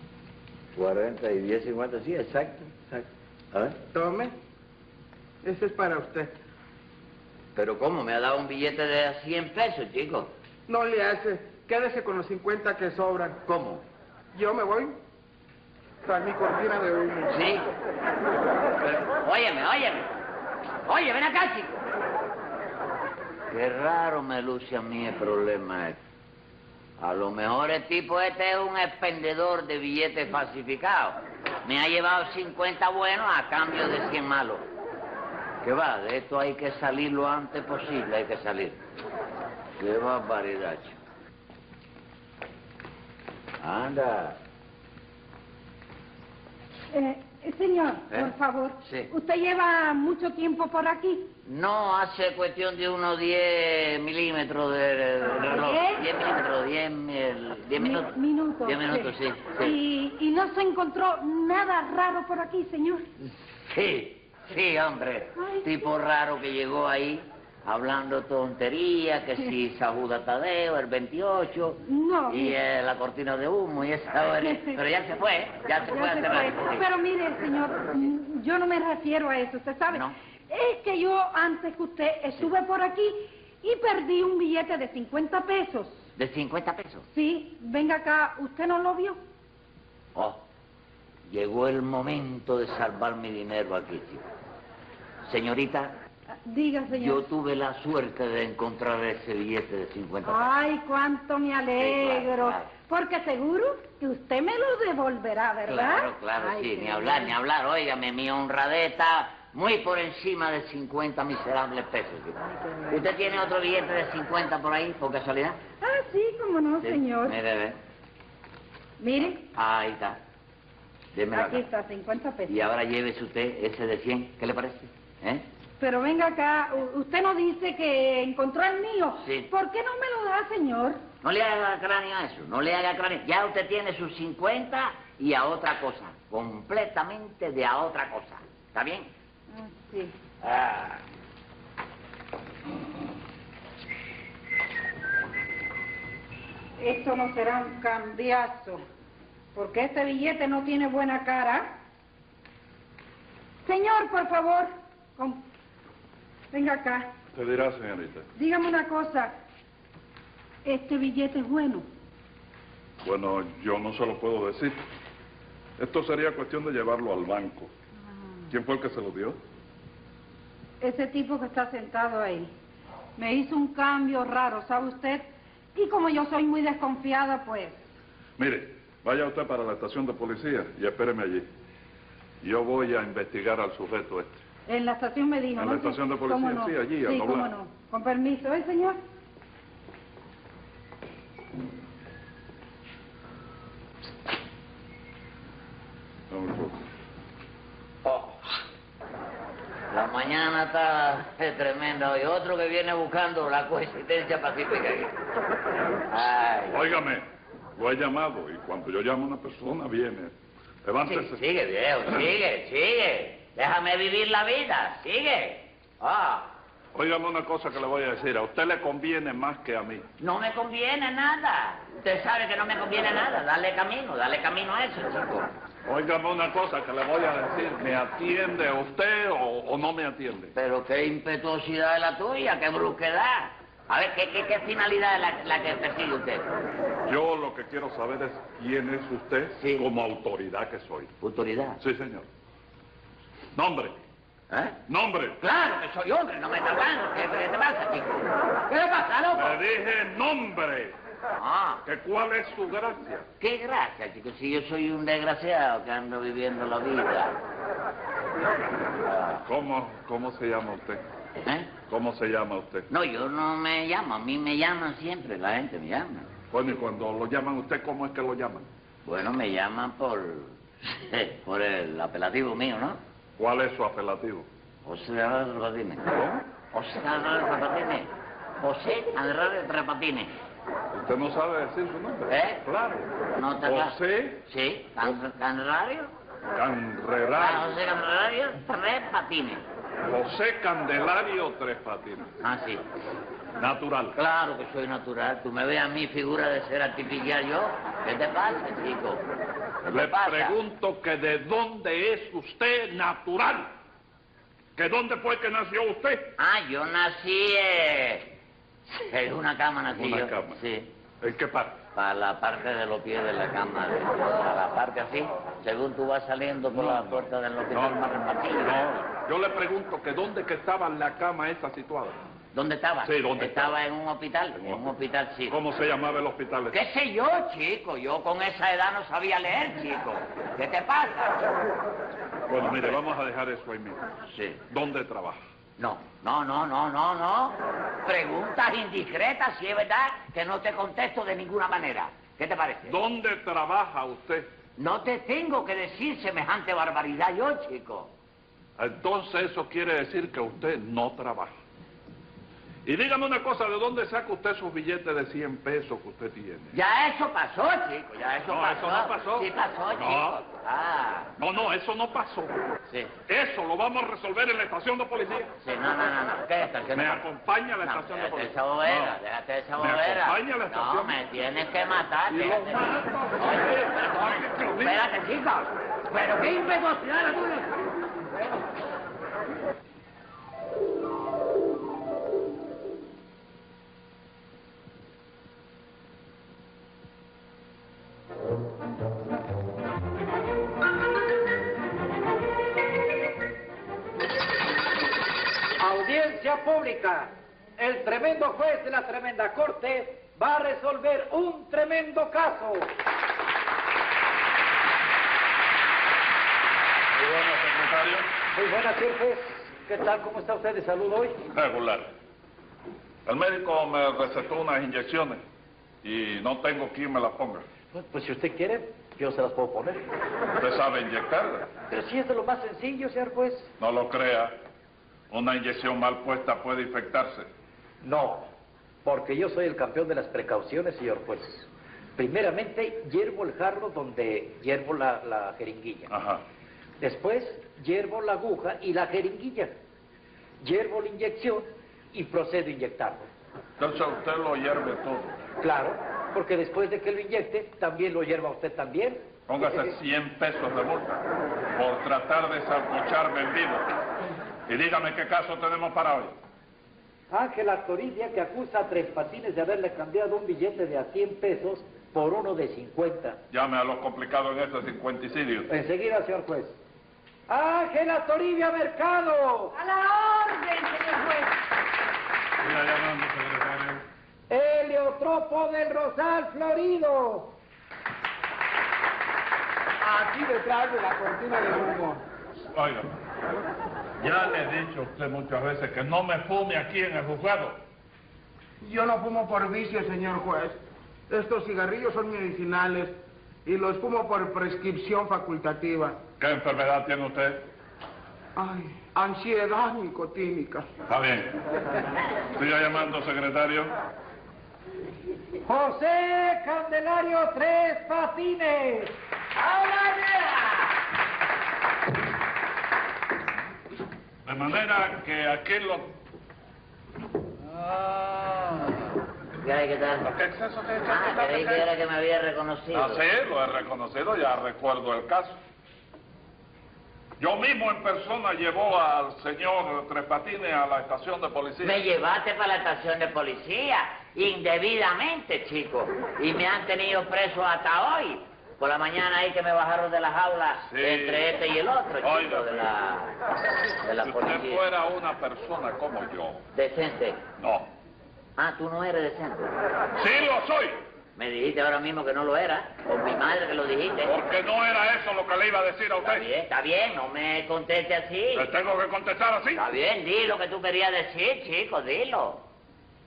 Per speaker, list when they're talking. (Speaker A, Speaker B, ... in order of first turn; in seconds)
Speaker A: 0.7-3.8, 7.5-10.3, 13.4-13.8, 17.3-17.7, 18.8-20.1, 20.9-21.9, 23.5-26.0, 27.0-34.6, 35.6-38.8, 39.8-41.0, 43.6-44.4, 48.8-49.1, 51.5-59.8, 63.7-76.9, 79.9-80.1, 86.2-87.0, 90.1-90.4, 91.2-94.2, 95.2-95.9, 96.9-100.5, 101.8-102.7, 105.7-115.6, 116.8-117.8, 119.5-120.2, 121.1-121.6, 122.5-125.4, 129.2-129.5, 131.2-139.1, 140.4-141.0, 198.0-198.3, 199.9-205.2, 206.1-206.9, 211.0-216.5, 220.2-225.5, 230.5-236.5, 239.6-239.9, 241.2-241.8, 244.5-244.8, 245.4-249.6, 251.3-251.8, 253.4-257.4, 259.0-259.4, 261.4-261.8, 262.9-266.3, 269.0-273.0, 274.8-276.1, 276.7-280.3, 282.3-282.6, 283.3-286.1, 287.2-289.6, 292.4-292.8, 294.1-299.2, 299.8-300.6, 306.4-308.3, 308.9-310.9, 311.9-318.8, 322.5-325.6, 326.7-331.5, 332.6-333.0, 334.3-334.6, 335.8-343.0, 344.8-348.1, 356.7-361.3, 362.9-363.1, 365.6-367.2, 367.8-377.7, 509.5-511.0, 517.8-518.8, 519.6-520.3, 521.1-523.2, 531.8-543.3, 544.0-544.8, 546.7-547.4, 548.6-549.7, 551.4-554.4, 556.2-558.7, 559.7-562.6
Speaker B: 3.9-4.3, 5.4-6.3, 10.7-13.4, 14.3-14.9, 16.0-17.4, 480.0-482.2, 488.8-490.8, 491.3-493.1, 493.6-496.2, 498.6-500.9
Speaker C: 46.9-51.3, 55.4-56.0, 57.8-63.0, 65.3-65.8, 71.8-72.6, 74.4-74.8, 75.8-86.0, 87.1-89.2, 96.4-97.3, 100.2-107.3, 112.5-113.1, 115.8-117.3, 119.0-119.4, 121.3-122.6, 125.8-131.0, 139.5-140.1, 146.8-148.8, 149.5-151.7, 153.7-155.4, 156.5-157.1, 158.3-159.3, 160.6-161.8, 170.8-172.5, 173.2-177.8, 184.7-189.0, 469.7-471.6
Speaker D: 157.3-158.3, 163.0-164.8, 165.8-167.7, 168.5-169.4, 178.4-181.5, 182.4-184.4, 185.6-187.5, 196.3-196.8, 206.7-210.3, 210.8-211.4, 216.9-220.0, 225.8-230.5, 237.0-241.1, 241.8-242.2, 243.5-243.9, 244.9-245.4, 249.3-250.9, 251.8-253.2, 259.4-261.0, 261.9-262.9, 266.5-268.6, 273.4-274.4, 276.1-276.4, 280.9-284.4, 286.5-287.7, 290.0-292.3, 293.6-294.1, 299.9-303.7, 304.8-306.3, 309.9-310.6, 311.2-311.8, 316.7-322.2, 323.0-323.8, 324.5-324.9, 325.5-326.8, 332.5-334.0, 334.7-335.4, 342.9-344.5, 348.8-351.6, 352.8-356.8, 358.5-360.4, 361.4-362.6, 363.3-365.5, 366.9-369.2, 369.8-371.2, 372.3-375.0, 407.1-408.3, 411.5-412.1, 413.2-415.4, 416.0-417.6, 420.6-421.7, 423.8-424.6, 425.3-427.5, 436.1-436.4, 443.8-445.4, 449.5-451.2, 451.7-453.9, 454.7-456.4, 463.5-465.7, 472.6-474.0, 482.7-483.2, 484.2-487.8, 496.4-497.6, 501.1-501.5, 502.5-503.9, 514.4-516.1, 520.2-521.9, 522.9-525.6, 527.4-532.0, 540.9-541.5, 542.2-542.9, 544.2-546.6, 547.6-547.9, 550.1-551.0, 554.2-556.5, 558.5-559.8
Speaker E: 395.8-402.9, 408.5-411.4, 417.9-420.1, 421.9-423.7, 428.0-428.5, 429.0-436.1, 437.0-439.7, 440.6-443.3, 445.6-449.2, 457.3-463.4, 465.7-466.8, 467.5-469.7, 474.5-477.5, 505.6-509.1